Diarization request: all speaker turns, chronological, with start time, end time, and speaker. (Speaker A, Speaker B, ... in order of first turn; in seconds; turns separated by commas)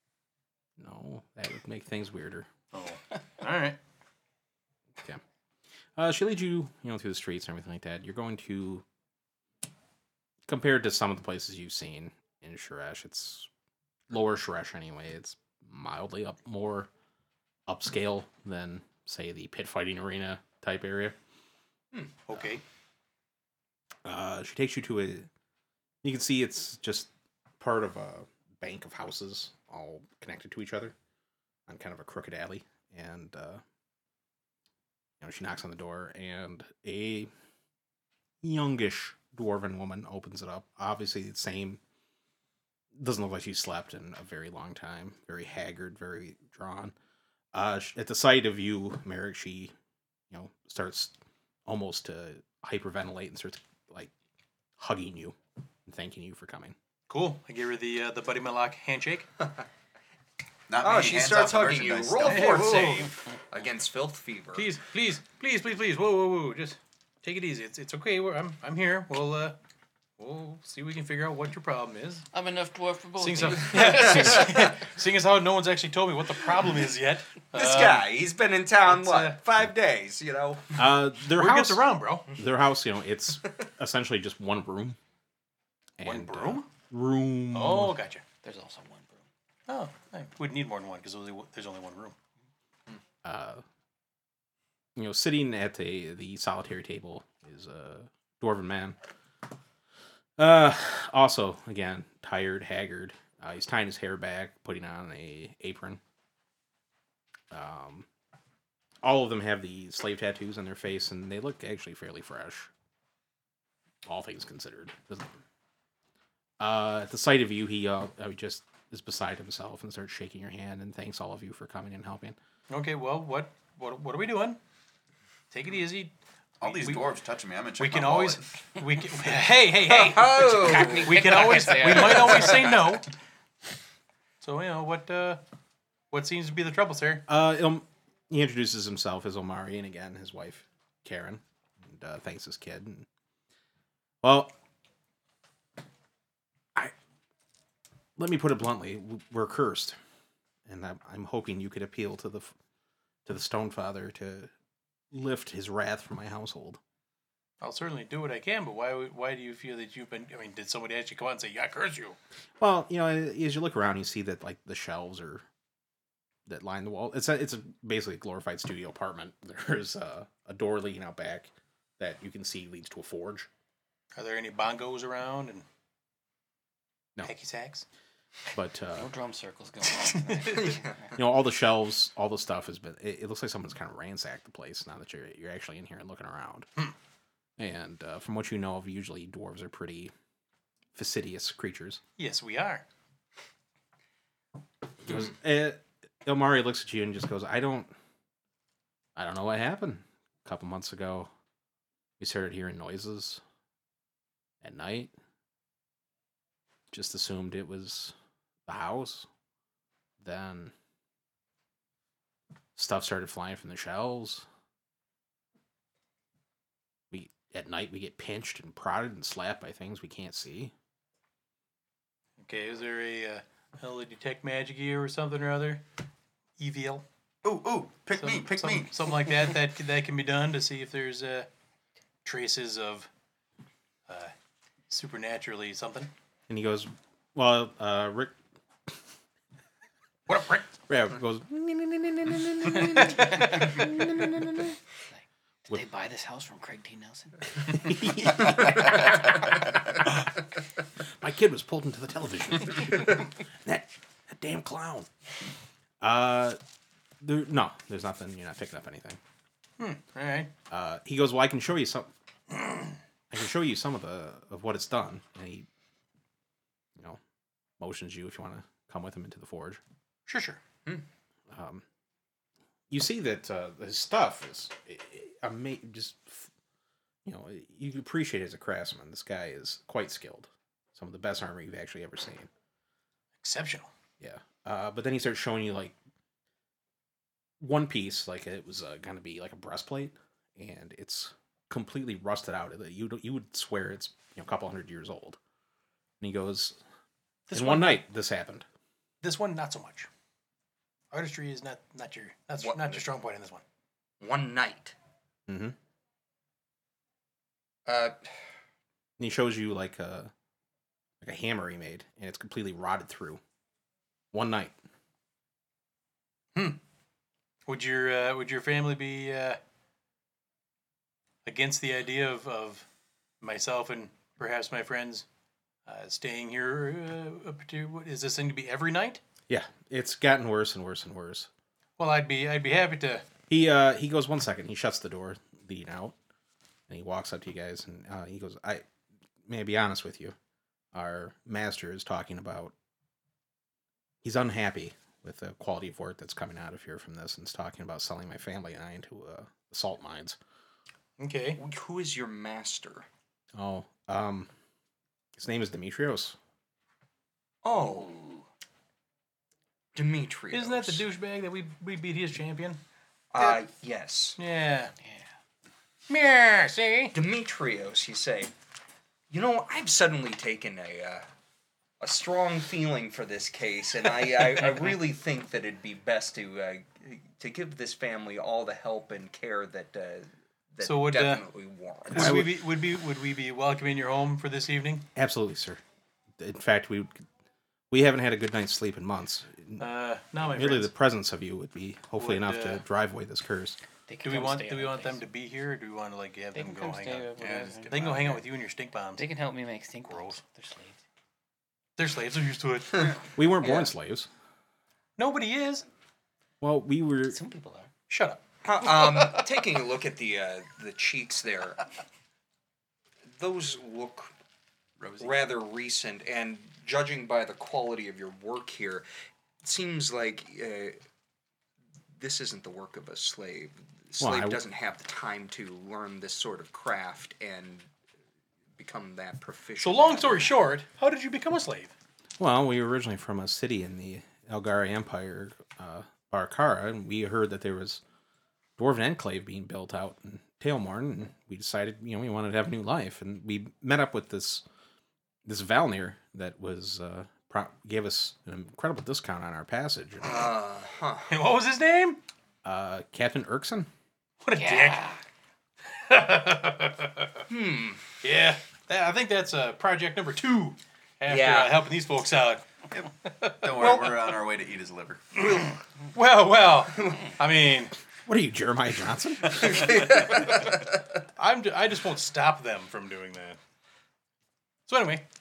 Speaker A: 0.8-2.5, Speaker B: 2.7-3.8, Speaker A: 6.0-8.8, Speaker A: 10.5-13.5, Speaker A: 14.1-16.9, Speaker A: 17.7-21.2, Speaker B: 22.3-22.6, Speaker A: 24.1-25.3, Speaker A: 26.0-27.1, Speaker A: 27.6-30.9, Speaker A: 31.7-33.6, Speaker A: 35.2-37.3, Speaker A: 38.4-41.8, Speaker A: 43.0-46.9, Speaker A: 47.5-49.7, Speaker A: 50.3-51.1, Speaker A: 51.7-54.1, Speaker A: 54.8-56.8, Speaker B: 57.1-59.3, Speaker C: 60.7-62.9, Speaker D: 60.8-64.7, Speaker B: 62.3-63.1, Speaker B: 64.5-69.6, Speaker B: 70.2-72.3, Speaker E: 72.3-74.7, Speaker B: 73.2-78.1, Speaker D: 77.5-80.7, Speaker B: 78.9-79.4, Speaker A: 80.8-85.0, Speaker B: 81.3-82.3, Speaker A: 86.0-88.0, Speaker B: 86.0-86.7, Speaker B: 87.5-88.2, Speaker E: 88.4-89.2, Speaker B: 89.7-92.2, Speaker A: 93.2-93.6, Speaker A: 95.0-99.0, Speaker A: 100.4-106.0, Speaker A: 107.5-108.1, Speaker A: 109.0-112.7, Speaker A: 114.0-115.3, Speaker A: 116.6-122.4, Speaker B: 122.7-124.6, Speaker B: 125.5-127.1, Speaker C: 126.6-128.4, Speaker B: 127.8-133.1, Speaker D: 129.8-131.3, Speaker E: 130.4-132.8, Speaker B: 134.4-135.4, Speaker B: 136.1-137.2, Speaker A: 137.3-143.1, Speaker A: 144.2-144.5, Speaker A: 148.2-150.0, Speaker A: 150.7-152.5, Speaker A: 153.3-154.5, Speaker A: 155.1-156.8, Speaker B: 157.6-162.2, Speaker A: 162.6-165.4, Speaker A: 166.5-173.5, Speaker B: 174.2-175.7, Speaker B: 177.2-177.9, Speaker A: 178.5-179.1, Speaker E: 179.0-181.1, Speaker B: 180.0-180.7, Speaker D: 180.6-181.0, Speaker A: 181.2-186.7, Speaker A: 187.6-190.1, Speaker A: 190.9-192.0, Speaker B: 192.2-192.8, Speaker A: 195.0-197.9, Speaker A: 199.2-201.3, Speaker A: 202.2-203.4, Speaker A: 204.6-205.1, Speaker A: 206.9-208.1, Speaker A: 208.7-209.3, Speaker A: 210.2-210.7, Speaker A: 212.8-214.5, Speaker A: 217.1-220.7, Speaker B: 222.4-225.8, Speaker B: 226.6-227.1, Speaker C: 227.4-228.9, Speaker B: 228.1-231.5, Speaker B: 232.2-233.1, Speaker B: 234.1-234.3, Speaker B: 234.9-236.1, Speaker A: 236.5-238.4, Speaker B: 240.3-240.7, Speaker A: 240.9-244.7, Speaker B: 242.8-243.2, Speaker E: 243.3-243.8, Speaker E: 245.1-249.3, Speaker A: 247.7-249.0, Speaker A: 251.2-255.1, Speaker A: 256.0-256.6, Speaker A: 257.2-259.2, Speaker B: 259.8-260.5, Speaker A: 260.7-262.1, Speaker A: 263.3-265.7, Speaker A: 267.8-269.8, Speaker B: 270.3-270.6, Speaker A: 271.5-271.8, Speaker A: 272.9-276.5, Speaker A: 277.2-282.5, Speaker B: 283.4-283.9, Speaker A: 284.2-286.0, Speaker A: 287.6-295.4, Speaker A: 296.2-296.8, Speaker B: 297.5-298.0, Speaker A: 297.5-298.6, Speaker B: 299.2-300.1, Speaker B: 301.1-303.6, Speaker D: 302.6-303.0, Speaker D: 304.2-304.9, Speaker A: 305.5-305.8, Speaker D: 307.9-308.2, Speaker A: 309.2-310.3, Speaker A: 311.2-313.4, Speaker A: 314.3-314.8, Speaker B: 316.6-316.8, Speaker B: 317.7-319.6, Speaker B: 321.4-322.9, Speaker B: 323.4-325.3, Speaker B: 325.9-329.2, Speaker A: 329.5-331.5, Speaker B: 332.0-333.2, Speaker A: 333.5-336.1, Speaker A: 336.9-338.9, Speaker A: 339.5-340.4, Speaker A: 340.9-342.7, Speaker A: 344.2-350.4, Speaker B: 351.2-351.6, Speaker D: 351.6-353.1, Speaker A: 353.6-354.5, Speaker A: 355.4-356.4, Speaker D: 357.6-358.2, Speaker E: 357.9-358.4, Speaker D: 359.9-361.1, Speaker B: 360.5-362.8, Speaker D: 363.3-364.4, Speaker B: 364.4-364.9, Speaker B: 366.1-367.1, Speaker D: 367.1-368.5, Speaker D: 369.3-371.3, Speaker D: 372.0-382.4, Speaker B: 380.8-381.4, Speaker B: 382.1-385.1, Speaker A: 382.1-382.5, Speaker A: 385.1-385.8, Speaker A: 386.4-387.2, Speaker A: 387.9-389.8, Speaker B: 389.8-390.9, Speaker A: 390.4-393.8, Speaker B: 392.2-392.8, Speaker E: 394.1-395.2, Speaker B: 394.2-399.3, Speaker E: 396.5-398.4, Speaker C: 397.4-398.4, Speaker E: 399.2-401.0, Speaker B: 400.1-400.4, Speaker B: 402.0-403.2, Speaker A: 403.4-404.3, Speaker D: 403.6-403.9, Speaker B: 405.2-405.9, Speaker A: 406.6-407.4, Speaker E: 407.3-407.9, Speaker B: 408.1-408.4, Speaker D: 408.6-411.8, Speaker D: 413.4-414.3, Speaker C: 415.0-415.3, Speaker D: 415.2-419.1, Speaker D: 419.6-421.0, Speaker D: 422.2-427.9, Speaker A: 424.2-424.6, Speaker D: 428.8-430.6, Speaker B: 429.8-431.9, Speaker A: 432.4-438.0, Speaker A: 438.8-444.6, Speaker A: 445.4-450.4, Speaker D: 450.2-451.3, Speaker B: 451.3-452.2, Speaker A: 452.6-453.9, Speaker B: 454.4-455.1, Speaker E: 454.6-455.2, Speaker B: 455.9-457.4, Speaker D: 457.5-458.0, Speaker B: 458.2-464.4, Speaker D: 461.3-461.8, Speaker C: 463.6-465.2, Speaker B: 465.4-467.9, Speaker A: 468.3-470.0, Speaker D: 469.6-470.8, Speaker B: 471.4-473.6, Speaker B: 474.9-475.2